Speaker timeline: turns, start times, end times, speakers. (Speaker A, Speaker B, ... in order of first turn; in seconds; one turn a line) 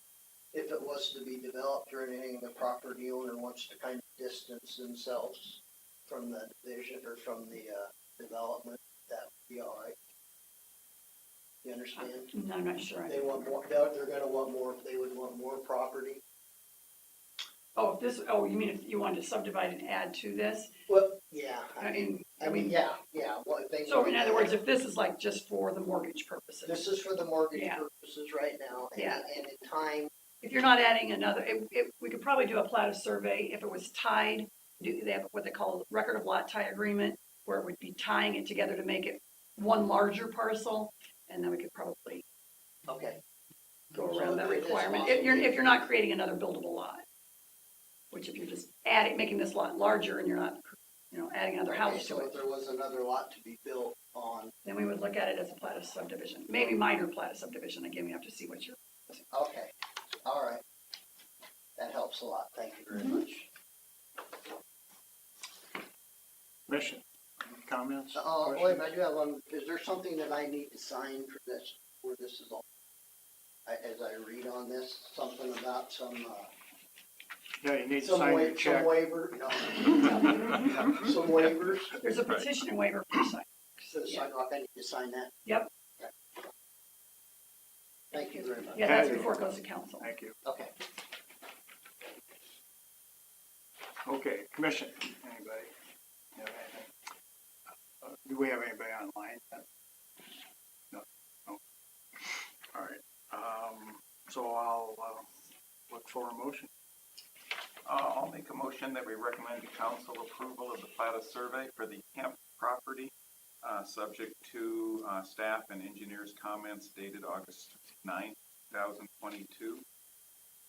Speaker A: 0.5-10.0
Speaker A: 11.6-12.3
Speaker B: 11.9-13.5
Speaker A: 13.1-16.2
Speaker B: 17.8-20.8
Speaker A: 20.9-24.6
Speaker B: 21.8-22.8
Speaker B: 23.9-26.9
Speaker A: 26.6-30.1
Speaker B: 27.5-27.8
Speaker B: 29.0-29.3
Speaker B: 30.4-42.2
Speaker A: 42.9-43.2
Speaker B: 43.9-47.0
Speaker A: 44.0-45.9
Speaker B: 48.1-52.3
Speaker A: 51.7-54.5
Speaker B: 54.6-59.2
Speaker A: 59.3-60.6
Speaker A: 61.8-63.5
Speaker C: 66.7-68.9
Speaker A: 68.1-72.7
Speaker A: 73.7-76.5
Speaker C: 77.6-79.0
Speaker A: 78.0-82.0
Speaker B: 79.9-80.8
Speaker B: 82.0-84.3
Speaker A: 83.9-85.3
Speaker A: 88.1-89.3
Speaker B: 88.3-90.1
Speaker C: 88.8-89.3
Speaker C: 90.0-90.4
Speaker A: 90.4-90.7
Speaker C: 94.0-95.7
Speaker C: 96.4-96.9
Speaker C: 98.0-99.7
Speaker C: 100.9-101.6
Speaker C: 102.7-105.3
Speaker C: 105.9-106.7
Speaker D: 107.8-113.1
Speaker D: 113.6-119.8